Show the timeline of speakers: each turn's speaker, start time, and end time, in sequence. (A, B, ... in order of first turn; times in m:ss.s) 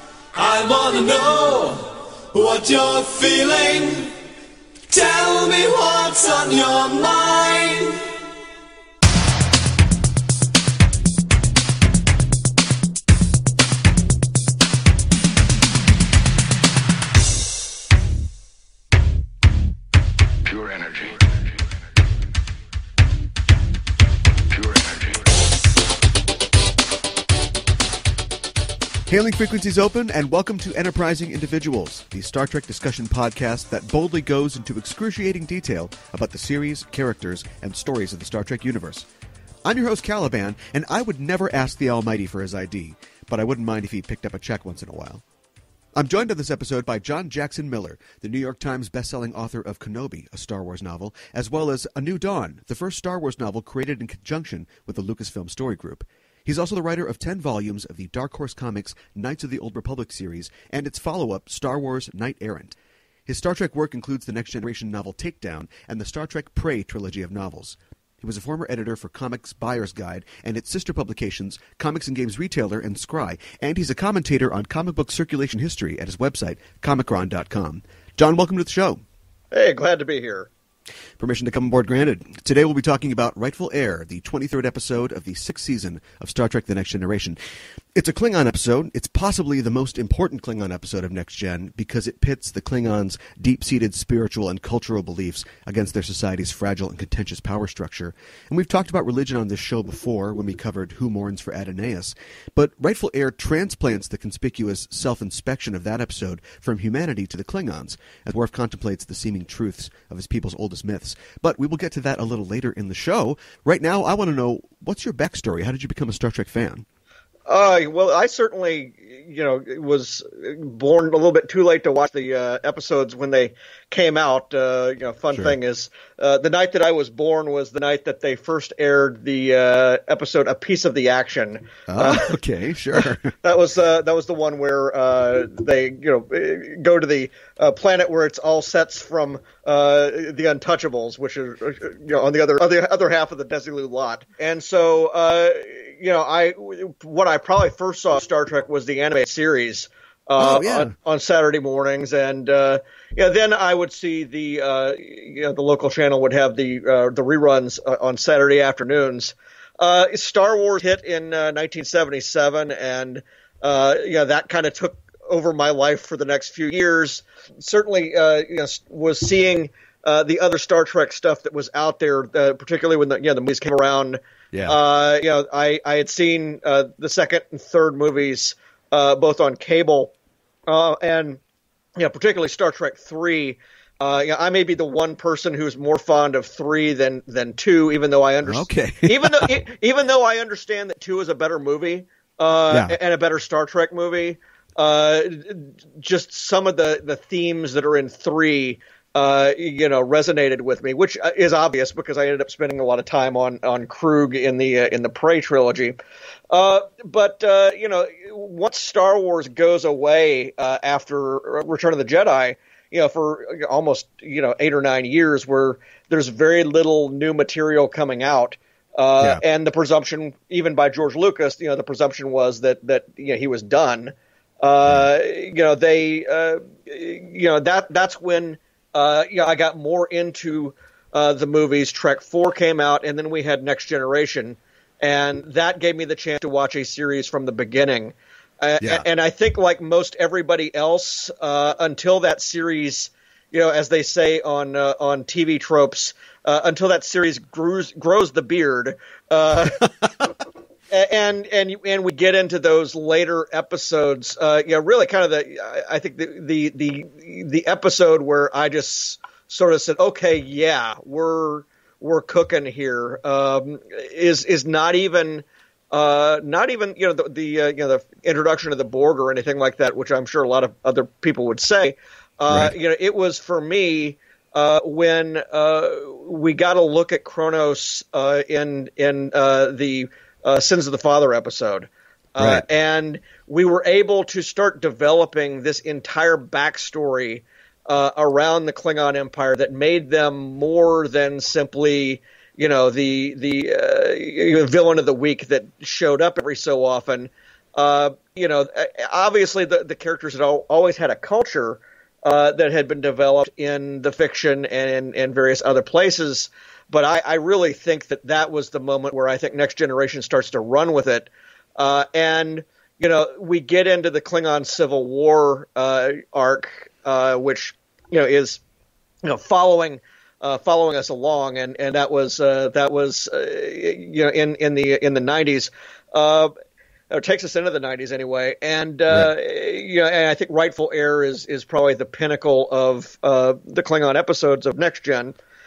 0:00.3-0:04.1 A
0:04.9-0:08.1 A
0:20.5-0:21.3 A
0:24.6-0:25.2 A
0:29.1-0:39.1 B
0:39.6-0:45.2 B
0:45.9-1:19.0 B
1:19.5-1:20.5 C
1:21.2-1:27.4 B
1:27.9-1:56.8 B
1:57.5-2:12.3 C
2:11.9-2:13.3 B
2:13.4-3:00.1 C
2:30.4-2:30.9 B
2:54.5-2:54.8 B
3:00.7-3:01.4 C
3:02.0-3:26.0 C
3:08.4-3:09.5 B
3:12.7-3:13.0 B
3:26.5-4:10.3 C
3:58.8-3:59.0 B
4:10.9-5:18.6 C
4:42.4-4:42.6 B
5:19.2-5:26.5 C
5:27.1-5:35.4 C